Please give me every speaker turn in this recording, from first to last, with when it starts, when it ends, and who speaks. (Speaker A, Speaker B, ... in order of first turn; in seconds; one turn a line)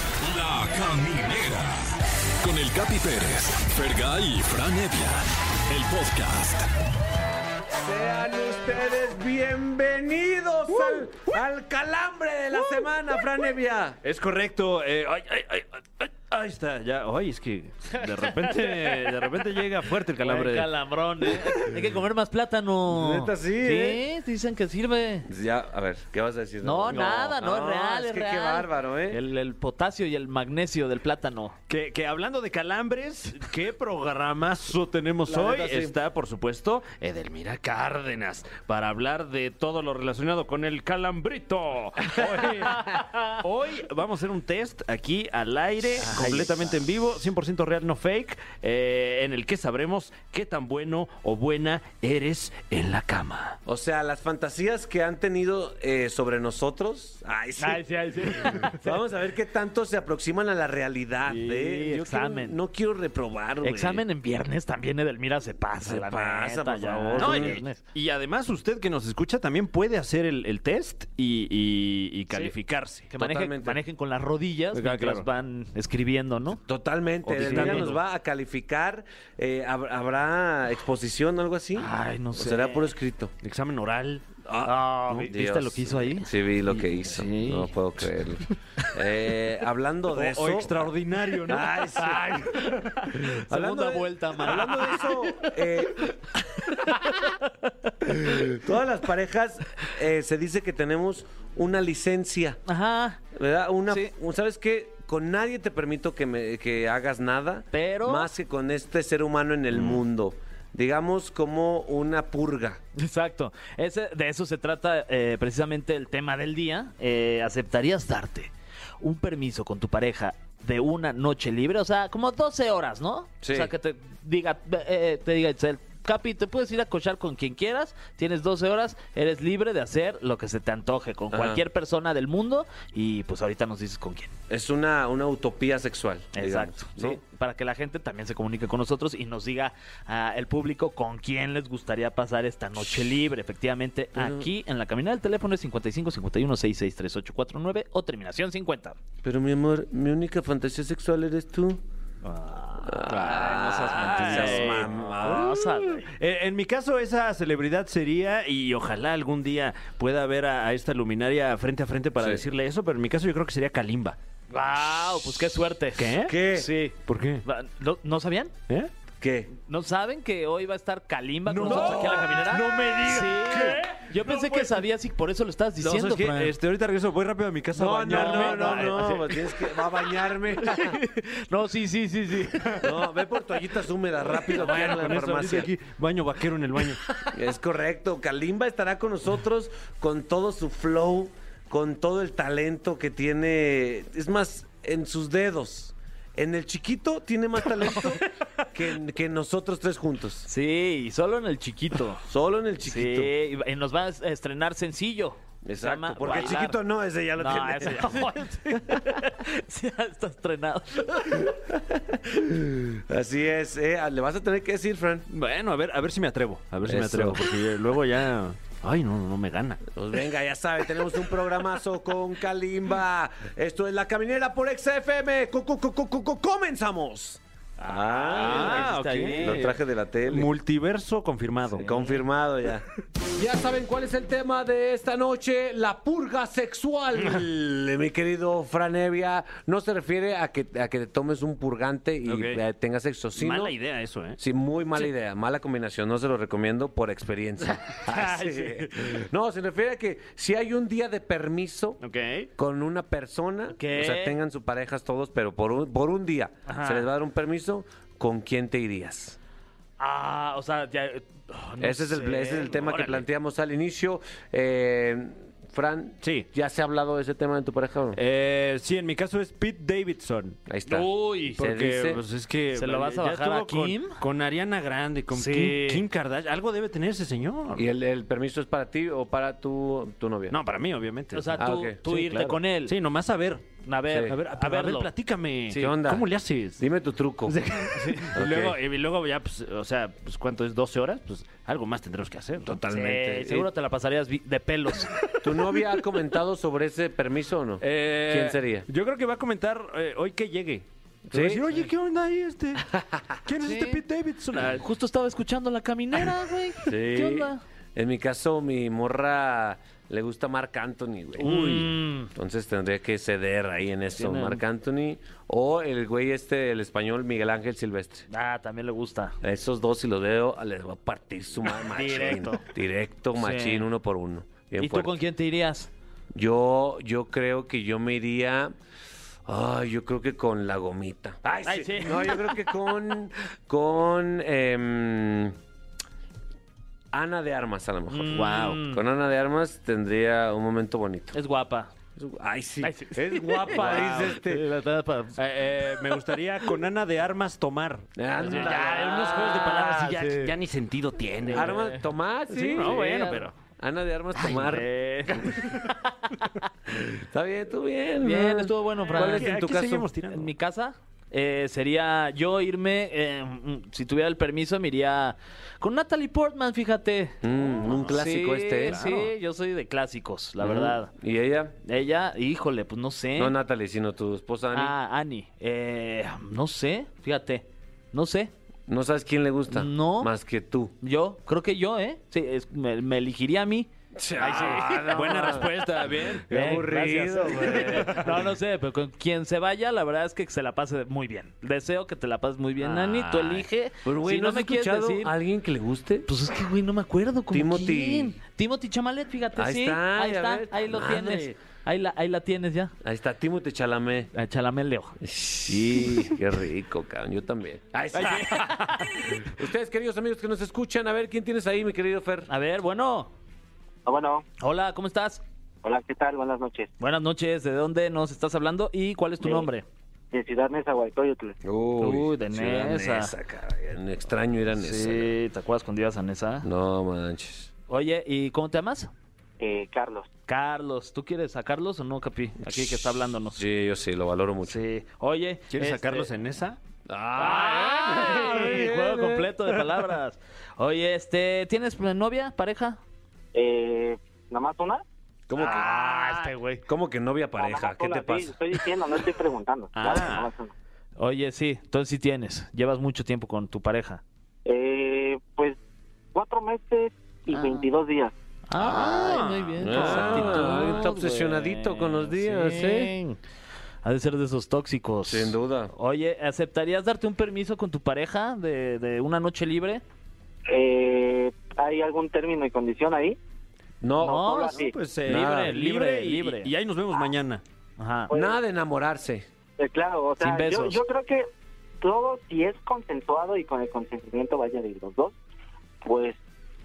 Speaker A: 0.2-1.9
Speaker A: 2.4-6.7
Speaker B: 7.7-14.0
Speaker C: 14.0-20.7
Speaker D: 18.2-19.1
Speaker D: 20.2-25.3
Speaker B: 22.9-24.0
Speaker B: 25.3-29.2
Speaker D: 26.6-31.6
Speaker C: 31.7-53.6
Speaker B: 35.3-35.9
Speaker B: 53.6-57.8
Speaker D: 57.6-58.9
Speaker B: 58.4-64.0
Speaker D: 61.3-62.6
Speaker D: 63.6-67.8
Speaker B: 65.8-67.6
Speaker C: 67.2-73.1
Speaker D: 73.1-76.6
Speaker B: 73.2-73.8
Speaker C: 74.7-75.3
Speaker B: 76.5-83.3
Speaker C: 77.2-78.0
Speaker D: 77.3-78.0
Speaker D: 81.8-82.9
Speaker C: 83.4-84.3
Speaker B: 84.4-90.9
Speaker D: 84.6-87.7
Speaker C: 90.1-91.8
Speaker B: 91.4-97.2
Speaker D: 92.0-95.5
Speaker D: 96.5-98.4
Speaker B: 98.0-102.6
Speaker D: 102.7-103.2
Speaker B: 103.3-112.8
Speaker D: 107.7-108.3
Speaker D: 113.0-134.3
Speaker B: 123.4-123.7
Speaker B: 131.3-131.6
Speaker B: 134.5-137.2
Speaker D: 136.3-149.0
Speaker B: 144.2-144.5
Speaker B: 149.2-151.8
Speaker D: 152.2-156.1
Speaker B: 152.8-155.4
Speaker C: 153.1-164.2
Speaker B: 162.2-162.4
Speaker D: 164.5-168.5
Speaker C: 165.9-166.4
Speaker B: 166.2-166.7
Speaker C: 167.0-167.4
Speaker B: 169.2-169.5
Speaker D: 169.5-176.5
Speaker C: 171.5-174.8
Speaker B: 171.6-172.4
Speaker C: 175.8-179.2
Speaker B: 177.7-181.0
Speaker D: 178.1-179.5
Speaker D: 180.6-182.9
Speaker B: 182.8-185.7
Speaker D: 184.4-185.2
Speaker C: 184.4-187.0
Speaker B: 187.3-200.5
Speaker D: 200.5-202.2
Speaker B: 202.2-203.3
Speaker D: 202.8-206.8
Speaker B: 205.6-208.2
Speaker D: 207.4-211.5
Speaker B: 211.9-215.3
Speaker C: 215.3-219.9
Speaker B: 216.8-217.4
Speaker B: 219.9-230.5
Speaker D: 227.8-229.7
Speaker C: 228.2-232.1
Speaker B: 231.8-243.8
Speaker C: 242.2-242.6
Speaker C: 243.3-244.4
Speaker B: 244.4-252.0
Speaker D: 248.0-248.8
Speaker C: 252.0-252.5
Speaker B: 252.6-259.4
Speaker D: 253.8-254.4
Speaker D: 256.7-257.1
Speaker D: 260.0-263.2
Speaker B: 261.8-268.2
Speaker C: 266.2-266.5
Speaker C: 268.1-270.6
Speaker B: 270.7-272.2
Speaker D: 270.9-271.6
Speaker C: 271.6-277.9
Speaker D: 272.7-274.2
Speaker D: 275.3-276.0
Speaker B: 277.7-280.6
Speaker C: 280.5-281.7
Speaker D: 281.3-282.9
Speaker B: 281.6-282.6
Speaker C: 282.8-286.8
Speaker D: 283.8-285.1
Speaker B: 284.1-284.3
Speaker B: 285.7-287.6
Speaker C: 287.4-292.8
Speaker D: 287.9-288.3
Speaker B: 288.3-288.8
Speaker B: 292.6-293.7
Speaker D: 292.9-295.4
Speaker B: 295.4-298.9
Speaker C: 297.8-302.9
Speaker B: 301.3-301.6
Speaker B: 302.8-303.3
Speaker C: 303.4-304.8
Speaker D: 303.6-304.0
Speaker D: 304.6-307.6
Speaker B: 306.8-318.2
Speaker D: 311.4-312.3
Speaker D: 314.1-314.6
Speaker D: 318.3-319.4
Speaker B: 319.4-325.2
Speaker D: 321.9-322.6
Speaker D: 323.4-323.9
Speaker D: 324.8-325.9
Speaker B: 326.3-328.7
Speaker B: 329.4-335.6
Speaker D: 331.6-332.5
Speaker B: 337.1-341.4
Speaker D: 338.1-339.0
Speaker C: 338.3-338.8
Speaker D: 341.3-341.9
Speaker B: 342.2-344.7
Speaker D: 342.8-346.1
Speaker C: 343.8-344.2
Speaker C: 345.3-352.0
Speaker B: 348.1-349.8
Speaker D: 348.4-350.5
Speaker D: 351.4-352.1
Speaker B: 351.5-353.0
Speaker C: 352.5-353.5
Speaker D: 352.8-353.4
Speaker B: 353.8-354.9
Speaker D: 354.4-356.4
Speaker B: 356.9-360.1
Speaker D: 358.2-359.5
Speaker C: 359.1-360.5
Speaker D: 360.3-371.1
Speaker B: 367.4-369.0
Speaker C: 367.8-368.1
Speaker C: 368.8-369.3
Speaker B: 370.6-371.8
Speaker D: 371.8-373.6
Speaker B: 373.4-374.9
Speaker D: 374.7-378.5
Speaker B: 378.9-380.9
Speaker D: 379.7-380.3
Speaker D: 381.0-385.6
Speaker B: 384.1-385.7
Speaker C: 384.6-386.5
Speaker B: 386.5-388.5
Speaker D: 386.5-395.3
Speaker C: 387.7-388.2
Speaker C: 392.8-393.7
Speaker B: 394.0-396.3
Speaker D: 396.3-402.9
Speaker B: 397.5-398.4
Speaker B: 399.6-401.6
Speaker B: 403.0-404.3
Speaker D: 404.3-406.3
Speaker B: 405.2-412.5
Speaker D: 408.1-409.4
Speaker D: 412.5-413.3
Speaker E: 414.1-414.4
Speaker D: 414.6-415.4
Speaker E: 415.8-416.9
Speaker D: 417.0-419.8
Speaker E: 420.3-421.6
Speaker B: 421.6-425.3
Speaker D: 422.0-423.3
Speaker D: 424.7-426.7
Speaker B: 426.6-427.7
Speaker D: 427.9-429.1
Speaker E: 429.6-430.3
Speaker D: 430.5-433.6
Speaker B: 432.6-434.8
Speaker D: 434.6-436.3
Speaker C: 435.7-436.8
Speaker B: 437.1-439.8
Speaker D: 437.4-443.0
Speaker E: 443.5-445.0
Speaker B: 445.5-446.0
Speaker D: 445.6-446.8
Speaker C: 445.6-446.3
Speaker B: 446.9-448.6
Speaker E: 447.6-450.7
Speaker C: 449.9-450.5
Speaker D: 451.2-454.2
Speaker E: 454.6-455.8
Speaker E: 456.3-458.3
Speaker D: 457.5-457.8
Speaker D: 458.7-463.4
Speaker C: 458.8-461.0
Speaker B: 458.8-459.2
Speaker B: 459.8-463.1
Speaker D: 464.0-470.0
Speaker B: 465.2-465.9
Speaker E: 470.7-473.4
Speaker B: 474.0-474.5
Speaker D: 474.2-476.7
Speaker E: 474.2-474.9
Speaker C: 474.8-477.6
Speaker B: 475.2-475.7
Speaker D: 478.0-478.3
Speaker E: 478.3-478.6
Speaker B: 478.3-479.4
Speaker E: 479.8-481.4
Speaker D: 480.4-481.0
Speaker E: 482.0-485.3
Speaker E: 486.0-486.4